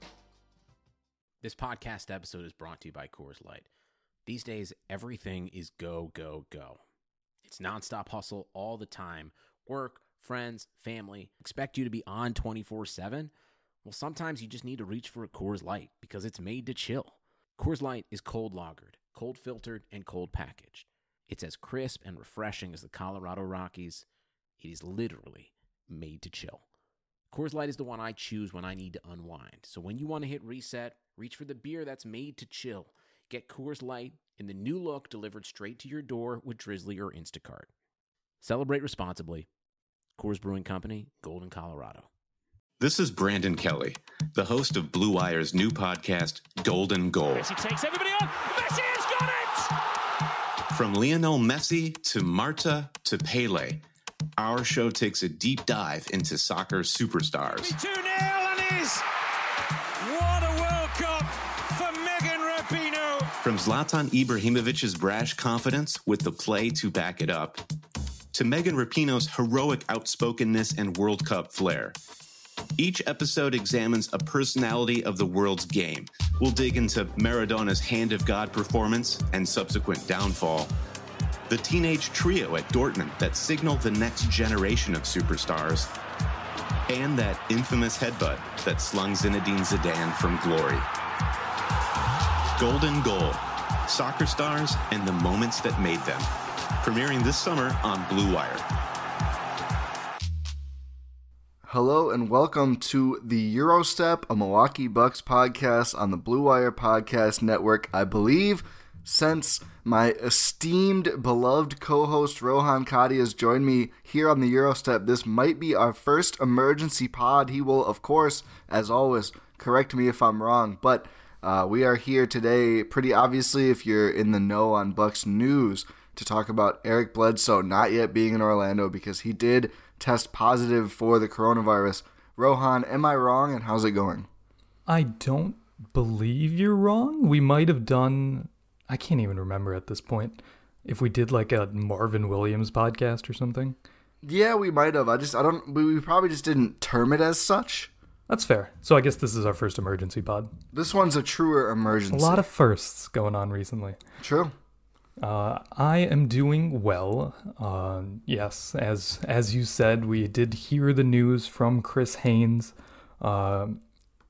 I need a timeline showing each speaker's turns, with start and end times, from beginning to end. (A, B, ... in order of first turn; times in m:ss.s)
0:01.4-0:03.7 A
0:04.2-0:06.8 A
0:07.4-0:13.3 A
0:13.8-0:24.0 A
0:24.6-0:26.6 A
0:27.3-0:37.7 A
0:38.4-0:39.5 A
0:40.2-0:42.1 A
0:42.8-0:47.5 B
0:47.3-0:49.7 C
0:50.7-0:53.8 B
0:54.4-0:57.7 B
0:57.4-0:59.0 C
1:00.0-1:03.3 C
1:03.4-1:07.6 B
1:08.3-1:11.9 B
1:12.8-1:20.7 B
1:21.5-1:25.9 B
1:26.9-1:30.8 B
1:32.6-1:36.3 B
1:36.8-1:38.6 B
1:41.7-2:14.3 D
2:14.9-2:23.8 E
2:24.2-2:27.9 D
2:28.3-2:30.5 E
2:30.7-2:32.4 D
2:32.1-2:34.0 E
2:34.2-2:34.5 D
2:35.2-2:43.8 E